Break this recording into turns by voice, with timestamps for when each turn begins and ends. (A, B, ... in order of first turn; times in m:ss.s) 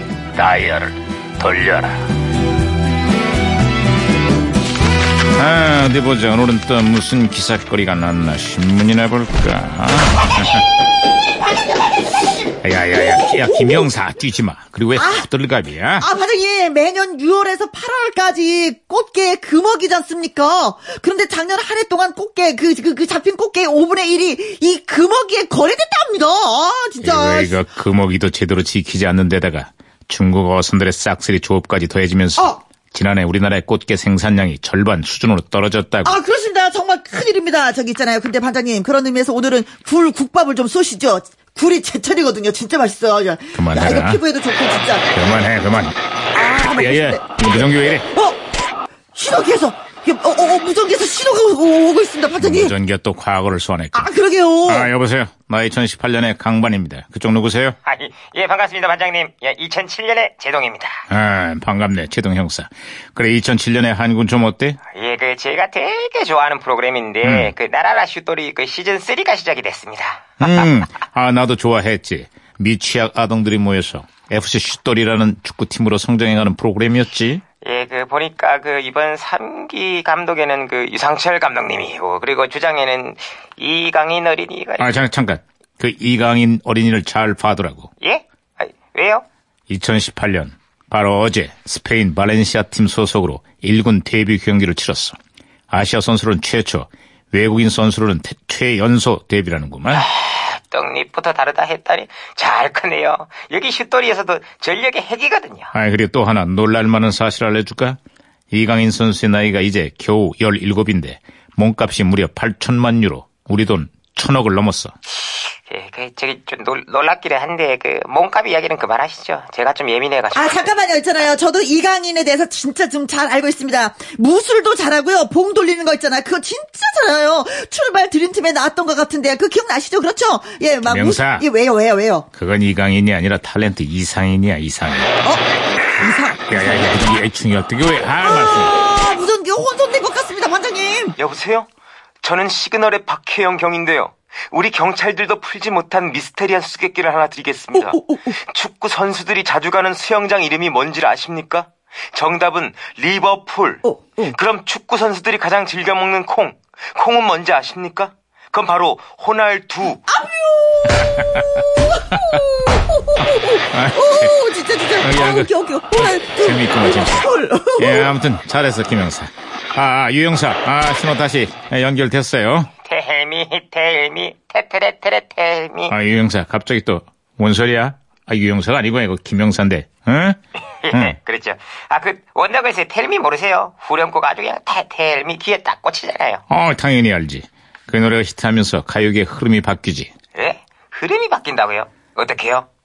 0:00.3-0:02.1 A
0:05.4-0:10.6 A
0:12.6-0:16.1 A
0:13.0-0:13.9 B
0:14.9-0:15.3 B
0:16.0-0:27.6 B
0:27.0-0:36.2 A
0:36.0-0:45.1 B
0:43.5-0:44.2 A
0:45.1-0:48.0 A
0:46.3-0:48.4 B
0:49.1-0:52.7 B
0:52.4-0:54.1 A
0:53.9-0:54.9 B
0:54.6-0:57.8 A
0:57.8-1:01.0 C
1:01.1-1:04.8 A
1:04.9-1:10.7 C
1:07.2-1:07.5 A
1:10.4-1:17.4 A
1:17.6-1:25.0 C
1:24.8-1:27.9 A
1:28.0-1:29.2 C
1:29.7-1:35.2 A
1:35.7-1:40.1 A
1:39.9-1:45.7 C
1:45.7-1:48.0 A
1:48.5-1:54.9 A
1:55.7-2:00.7 C
2:00.3-2:12.3 B
2:10.9-2:11.4 A
2:12.3-2:15.1 A
2:15.2-2:17.1 B
2:16.5-2:18.8 A
2:18.2-2:21.2 B
2:21.2-2:21.7 C
2:22.2-2:40.0 C
2:27.7-2:28.4 B
2:33.8-2:34.4 B
2:40.0-2:41.2 B
2:41.8-2:48.2 B
2:43.7-2:44.3 A
2:45.0-2:47.3 A
2:47.8-2:52.7 A
2:52.8-2:55.9 C
2:55.9-3:00.4 A
3:00.8-3:06.4 C
3:06.5-3:10.1 A
3:10.3-3:12.6 C